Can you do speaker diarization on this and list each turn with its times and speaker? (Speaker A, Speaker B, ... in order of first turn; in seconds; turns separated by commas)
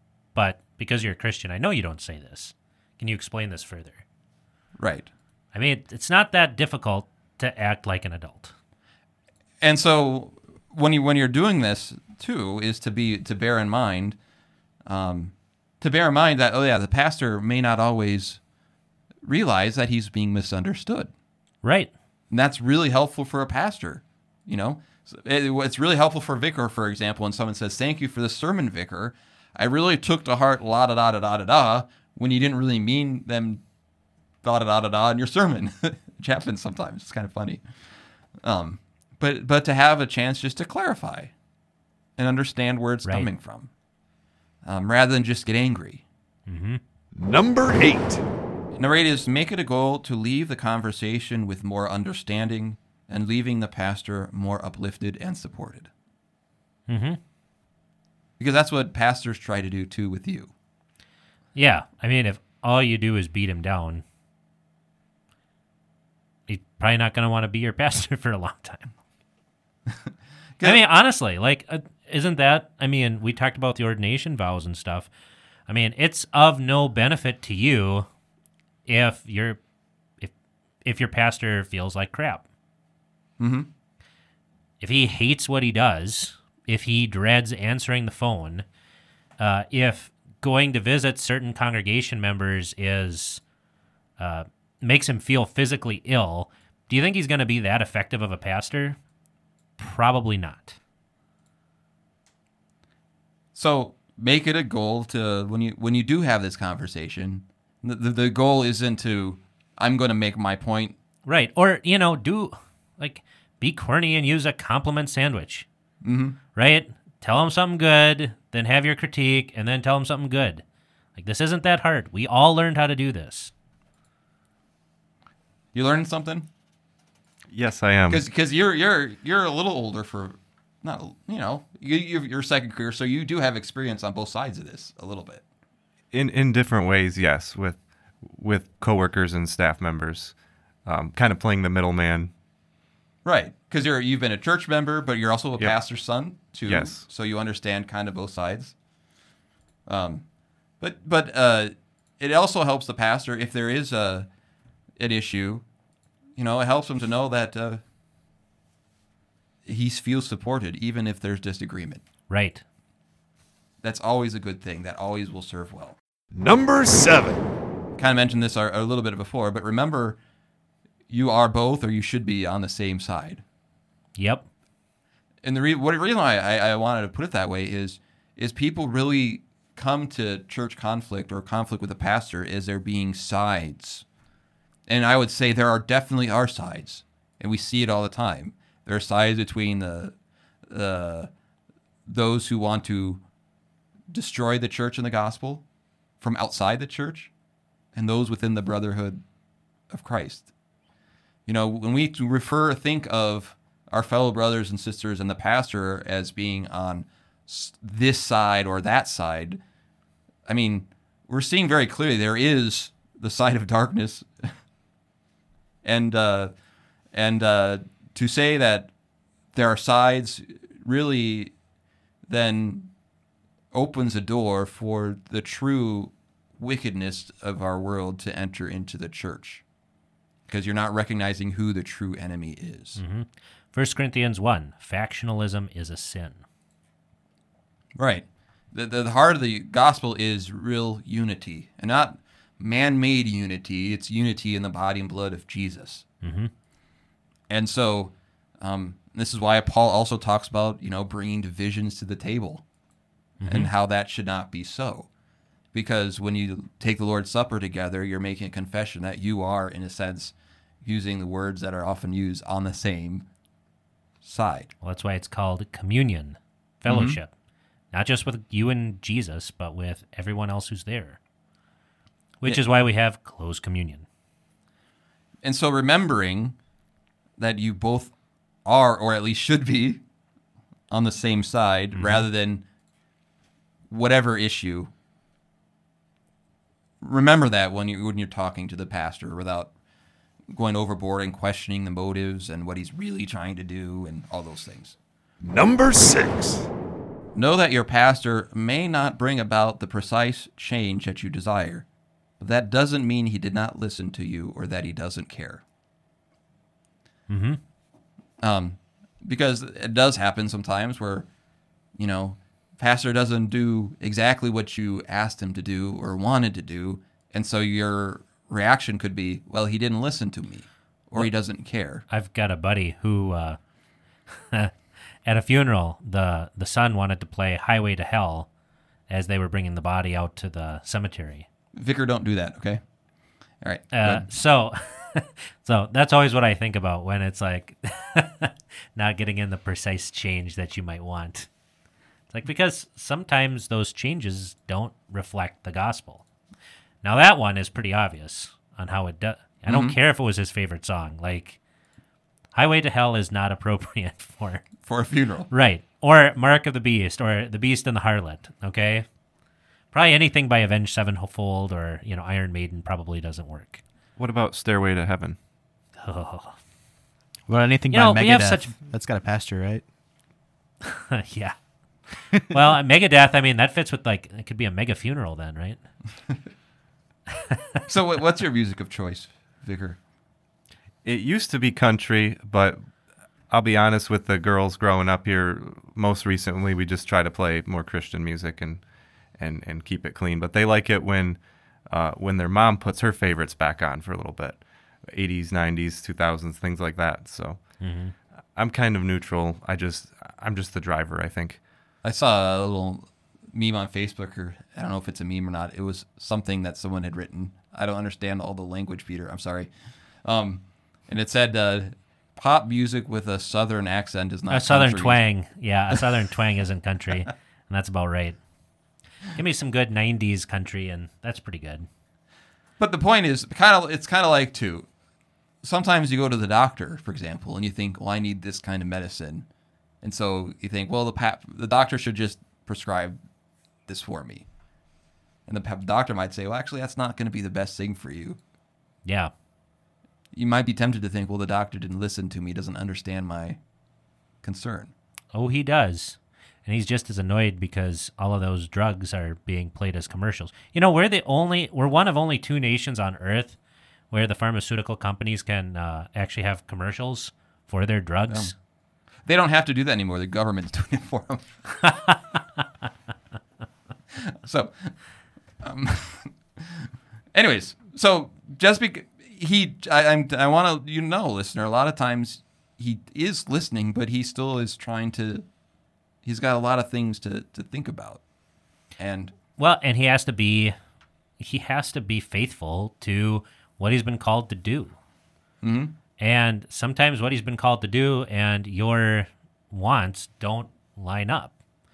Speaker A: 0.3-4.0, Speaker B: 4.8-5.1, Speaker A: 5.5-8.5, Speaker B: 9.6-14.2, Speaker B: 14.9-18.4, Speaker B: 19.2-21.1, Speaker A: 21.6-21.9, Speaker B: 22.3-33.6, Speaker B: 34.4-37.6, Speaker B: 38.4-41.3, Speaker B: 42.2-43.7, Speaker B: 44.6-46.0, Speaker A: 46.5-46.8, Speaker C: 47.1-48.2, Speaker B: 48.7-55.9, Speaker A: 56.9-57.2, Speaker B: 58.4-60.5, Speaker A: 61.5-64.0, Speaker A: 66.5-68.9, Speaker A: 70.6-75.1, Speaker A: 75.7-78.1, Speaker A: 78.9-79.6, Speaker A: 80.8-82.4, Speaker B: 83.4-83.7, Speaker A: 84.8-88.6, Speaker A: 89.4-93.4, Speaker A: 94.2-99.0, Speaker A: 99.8-100.8, Speaker B: 103.5-110.9, Speaker A: 111.2-115.7, Speaker B: 116.0-116.4, Speaker A: 116.5-120.6, Speaker A: 121.2-123.5, Speaker B: 125.7-126.5, Speaker D: 127.5-128.2, Speaker B: 128.1-135.4, Speaker D: 136.1-142.3, Speaker B: 143.2-148.7, Speaker D: 146.7-147.0, Speaker B: 149.9-150.2, Speaker B: 150.8-154.3, Speaker B: 155.0-155.6, Speaker B: 156.4-157.8, Speaker B: 159.7-162.0, Speaker A: 162.3-162.6, Speaker B: 163.8-165.9, Speaker C: 166.3-167.5, Speaker B: 168.0-170.2, Speaker B: 171.1-173.4, Speaker A: 174.2-174.5, Speaker B: 175.4-184.0, Speaker B: 184.9-190.1, Speaker B: 190.7-191.3, Speaker B: 192.1-193.2, Speaker B: 194.1-195.6, Speaker B: 196.2-197.3, Speaker B: 197.9-199.2, Speaker B: 199.9-200.5, Speaker B: 201.5-209.6, Speaker B: 210.5-214.5, Speaker B: 215.8-216.5, Speaker B: 217.1-218.9, Speaker B: 219.5-221.5, Speaker B: 222.3-222.9, Speaker B: 223.7-229.6, Speaker B: 230.5-233.0, Speaker A: 233.0-236.4, Speaker B: 237.9-246.1, Speaker A: 246.2-246.5, Speaker B: 247.5-252.6, Speaker A: 253.4-253.7, Speaker B: 253.5-255.1, Speaker B: 255.7-263.3, Speaker B: 264.2-264.7, Speaker A: 264.8-267.3, Speaker B: 266.9-267.2, Speaker A: 267.9-271.2, Speaker A: 272.4-274.1, Speaker B: 275.4-276.6, Speaker B: 277.4-278.1, Speaker B: 278.6-280.0, Speaker B: 280.9-282.6, Speaker A: 281.9-282.3, Speaker B: 283.9-284.9, Speaker B: 287.0-289.7, Speaker B: 290.5-294.9, Speaker C: 295.4-296.7, Speaker B: 297.3-301.9, Speaker B: 302.4-305.6, Speaker A: 307.3-307.6, Speaker B: 308.4-311.3, Speaker B: 312.0-322.0, Speaker A: 322.1-323.6, Speaker A: 324.4-324.7, Speaker A: 325.2-328.5, Speaker A: 329.1-331.4, Speaker B: 331.7-332.8, Speaker B: 333.6-334.3, Speaker A: 333.9-341.5, Speaker A: 342.3-346.2, Speaker A: 347.0-351.6, Speaker B: 349.7-349.9, Speaker A: 352.5-354.6, Speaker B: 354.8-355.5, Speaker A: 355.5-359.1, Speaker A: 359.9-363.8, Speaker D: 364.2-365.4, Speaker A: 366.0-366.6, Speaker E: 367.5-369.8, Speaker A: 367.9-368.7, Speaker A: 370.8-371.6, Speaker A: 372.3-375.8, Speaker A: 377.5-377.8, Speaker B: 377.9-380.0, Speaker D: 381.0-382.8, Speaker D: 383.5-388.8, Speaker D: 389.4-397.6, Speaker A: 397.8-398.1, Speaker D: 398.6-401.6, Speaker B: 402.0-409.7, Speaker B: 410.2-415.2, Speaker A: 414.5-418.4, Speaker A: 419.3-421.9, Speaker B: 422.8-424.9, Speaker B: 425.6-429.4, Speaker B: 430.0-433.2, Speaker B: 433.9-434.4, Speaker B: 435.5-438.4, Speaker A: 439.1-439.3, Speaker B: 440.3-443.6, Speaker B: 444.4-444.9, Speaker A: 445.3-453.6, Speaker A: 454.1-458.5, Speaker B: 459.3-461.5, Speaker A: 461.9-462.1, Speaker B: 464.3-464.9, Speaker B: 465.6-475.4, Speaker B: 476.2-478.2, Speaker B: 479.0-479.3, Speaker A: 479.6-480.7, Speaker A: 481.4-484.9, Speaker B: 485.6-485.9, Speaker A: 486.2-491.5